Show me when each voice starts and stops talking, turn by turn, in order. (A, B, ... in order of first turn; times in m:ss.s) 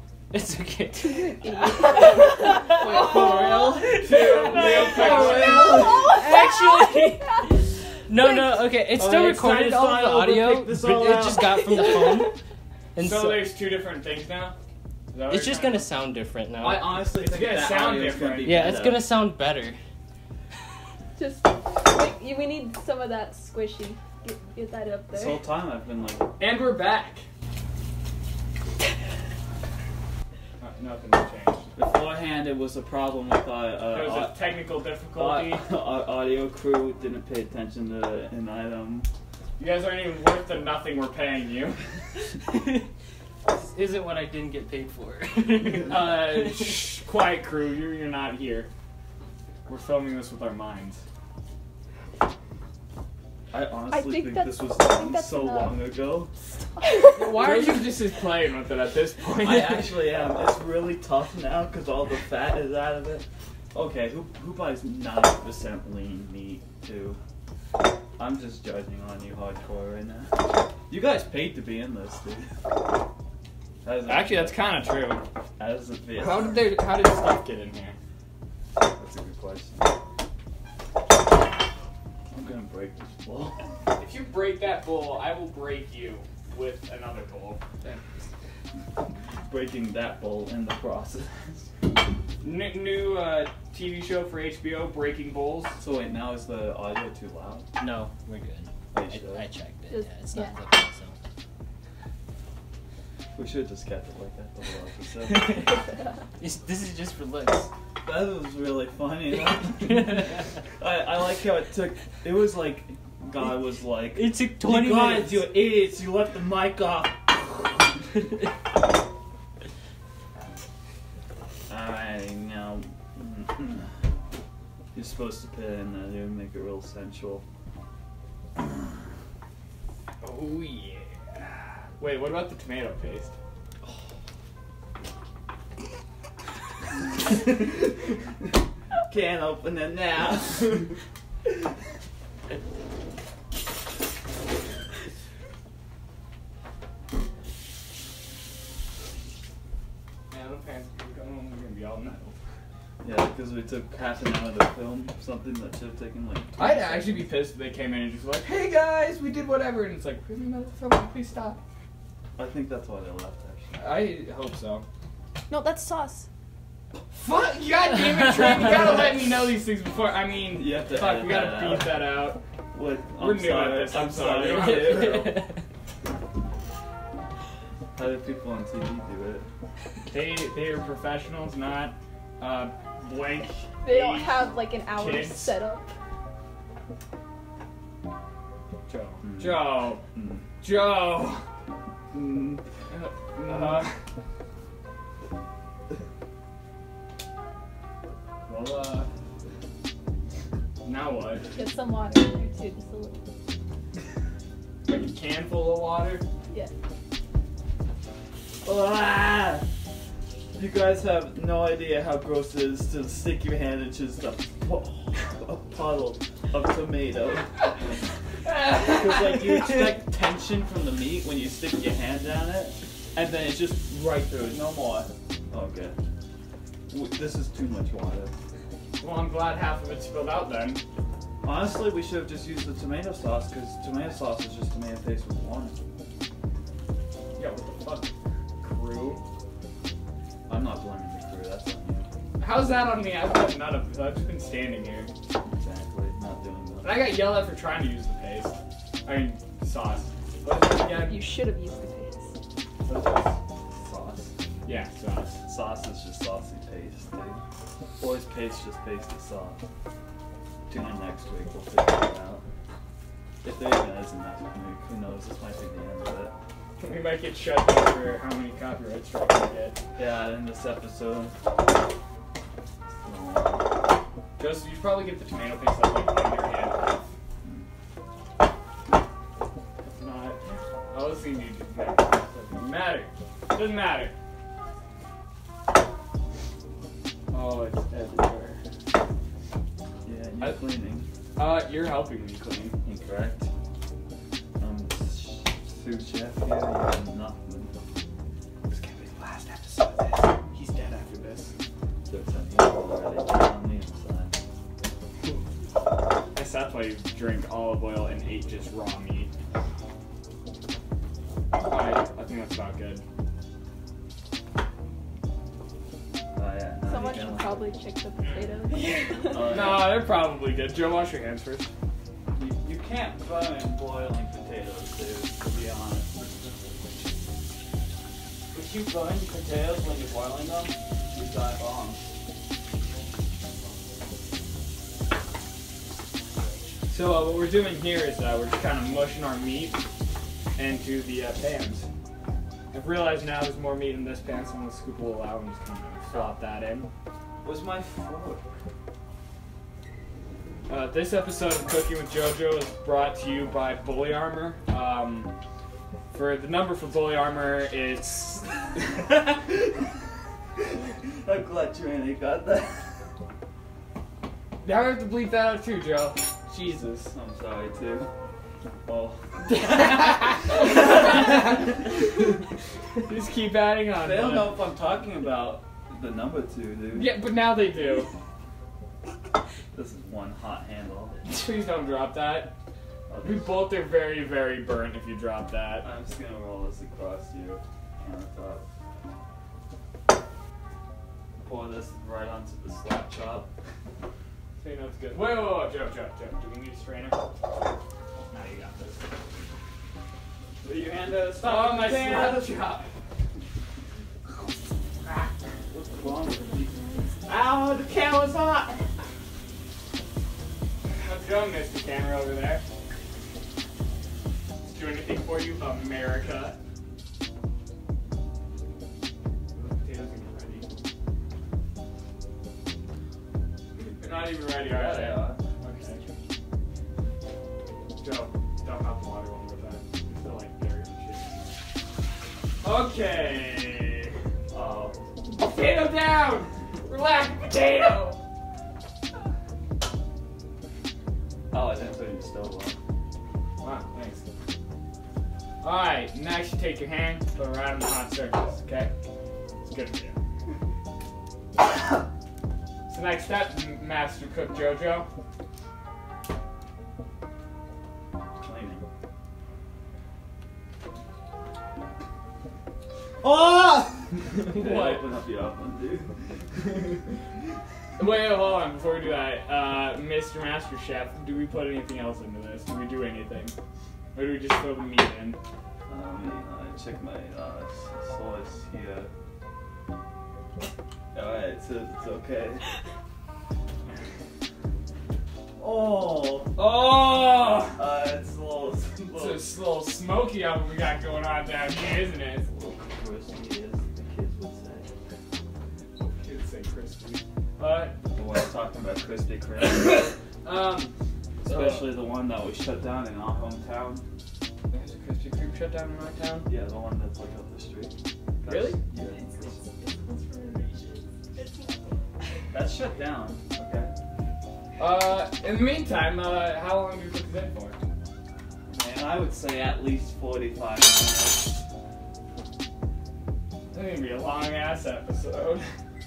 0:00.3-0:12.4 A
0:01.0-0:03.5 B
0:02.6-0:06.2 C
0:03.9-0:05.8 D
0:04.2-0:07.6 B
0:08.9-0:12.0 C
0:12.0-0:12.3 B
0:12.9-0:13.5 A
0:13.0-0:14.5 D
0:15.1-0:15.9 D
0:15.3-0:17.0 A
0:16.6-0:19.1 C
0:16.9-0:18.8 D
0:18.4-0:19.8 A
0:21.2-0:25.4 B
0:25.1-0:26.3 C
0:26.4-0:27.2 D
0:30.6-0:31.7 D
0:31.8-0:34.4 C
0:33.9-0:35.6 D
0:35.1-0:39.1 C
0:39.6-0:41.8 D
0:42.5-0:42.8 A
0:43.5-0:46.8 A
0:45.7-0:48.7 D
0:49.6-0:51.0 D
0:53.5-0:56.3 C
0:53.9-0:57.4 B
0:57.0-0:59.8 D
0:57.2-0:57.9 A
0:59.4-0:59.8 A
0:59.4-1:07.2 C
1:08.2-1:12.5 C
1:13.8-1:14.8 C
1:14.1-1:15.2 D
1:15.6-1:16.6 C
1:16.2-1:18.0 D
1:18.8-1:20.0 C
1:22.3-1:23.6 C
1:24.0-1:27.6 D
1:29.4-1:31.7 C
1:32.4-1:35.8 D
1:35.8-1:37.7 C
1:37.8-1:41.2 A
1:38.9-1:39.4 C
1:39.9-1:40.6 B
1:43.4-1:45.5 C
1:45.2-1:47.7 A
1:45.8-1:46.1 B
1:48.0-1:57.9 C
1:49.7-1:50.5 A
1:54.1-1:55.5 A
2:01.7-2:03.9 C
2:04.9-2:07.4 C
2:10.2-2:11.4 D
2:12.0-2:13.3 D
2:17.3-2:18.1 C
2:19.1-2:21.0 C
2:30.3-2:32.3 D
2:33.0-2:37.3 C
2:36.6-2:41.6 D
2:42.4-2:43.8 C
2:43.8-2:44.8 D
2:45.5-2:46.3 B
2:47.1-2:52.4 D
2:48.6-2:49.2 C
2:50.5-2:52.1 C
2:52.7-2:55.4 C
2:53.2-2:55.2 D
2:54.6-2:55.6 A
2:57.9-2:59.5 C
3:00.1-3:05.5 D
3:03.8-3:05.9 B
3:08.9-3:10.0 D
3:09.2-3:10.4 C
3:10.6-3:11.4 D
3:12.1-3:12.6 C
3:12.9-3:13.9 D
3:13.4-3:13.9 C
3:18.4-3:19.1 D
3:20.8-3:21.4 D
3:21.5-3:23.2 B
3:24.9-3:26.2 D
3:28.6-3:29.6 C
3:30.6-3:38.0 C
3:38.4-3:39.8 D
3:38.8-3:46.0 C
3:46.9-3:48.3 C
3:49.0-3:50.8 D
3:51.4-3:55.8 C
3:57.4-3:59.2 D
4:00.5-4:02.1 C
4:02.4-4:05.1 D
4:05.4-4:07.2 C
4:06.8-4:11.2 D
4:11.0-4:12.3 B
4:12.8-4:13.4 D
4:13.7-4:14.3 C
4:14.6-4:15.4 D
4:15.4-4:17.4 C
4:18.0-4:19.6 C
4:20.7-4:22.4 C
4:23.4-4:26.3 C
4:26.8-4:29.8 D
4:30.0-4:31.4 C
4:33.0-4:33.7 C
4:34.4-4:37.1 D
4:37.4-4:37.7 C
4:39.8-4:44.1 D
4:47.3-4:48.6 D
4:50.0-4:51.0 C
4:51.4-4:52.8 D
4:52.8-4:53.5 C
4:54.6-4:57.7 C
4:58.7-5:01.5 D
5:02.0-5:04.4 C
5:06.3-5:09.3 D
5:11.6-5:13.0 D
5:16.3-5:17.6 C
5:16.8-5:19.6 B
5:18.3-5:21.7 D
5:19.2-5:20.1 C
5:22.3-5:26.9 C
5:28.5-5:32.0 C
5:36.9-5:39.8 D
5:40.6-5:41.9 D
5:42.7-5:46.9 D
5:46.1-5:46.4 C
5:47.4-5:48.5 C
5:50.7-5:55.3 D
5:56.1-5:58.6 D
5:58.9-5:59.8 C
6:00.6-6:03.1 C
6:04.6-6:07.1 D
6:07.1-6:08.1 C
6:08.8-6:11.7 C
6:09.4-6:11.9 D
6:13.0-6:14.6 D
6:14.0-6:17.1 C
6:16.9-6:18.1 D
6:19.7-6:21.2 C
6:21.2-6:22.6 D
6:23.1-6:23.7 C
6:23.2-6:25.9 D
6:25.8-6:28.6 C
6:31.4-6:33.5 C
6:34.6-6:37.2 D
6:38.3-6:39.0 D
6:40.6-6:42.6 C
6:41.4-6:42.9 D
6:45.0-6:45.3 D
6:45.7-6:48.8 C
6:46.2-6:47.2 B
6:50.8-6:52.6 D
6:54.6-6:56.6 D
6:59.5-7:00.8 D
7:03.7-7:06.0 D
7:04.6-7:05.4 C
7:08.0-7:11.5 D
7:12.6-7:14.1 D
7:14.5-7:15.0 C
7:15.3-7:18.2 D
7:21.5-7:22.8 C
7:23.6-7:24.2 D
7:25.6-7:28.9 D
7:29.6-7:30.2 D
7:32.9-7:35.1 D
7:38.4-7:38.8 C
7:43.2-7:46.6 C
7:44.5-7:45.0 D
7:48.0-7:53.5 D
7:54.1-7:55.4 D
7:55.9-7:59.1 C
8:01.1-8:02.6 C
8:05.6-8:06.6 C
8:06.6-8:07.8 D
8:07.7-8:09.4 C
8:09.1-8:12.5 D
8:12.5-8:14.9 C
8:16.0-8:18.0 D
8:18.1-8:20.1 C
8:19.6-8:22.0 D
8:21.4-8:24.0 C
8:24.7-8:26.5 D
8:26.4-8:29.6 C
8:28.4-8:28.8 D
8:28.9-8:32.4 B
8:32.5-8:33.9 C
8:34.8-8:37.8 D
8:38.7-8:41.5 C
8:43.7-8:45.7 D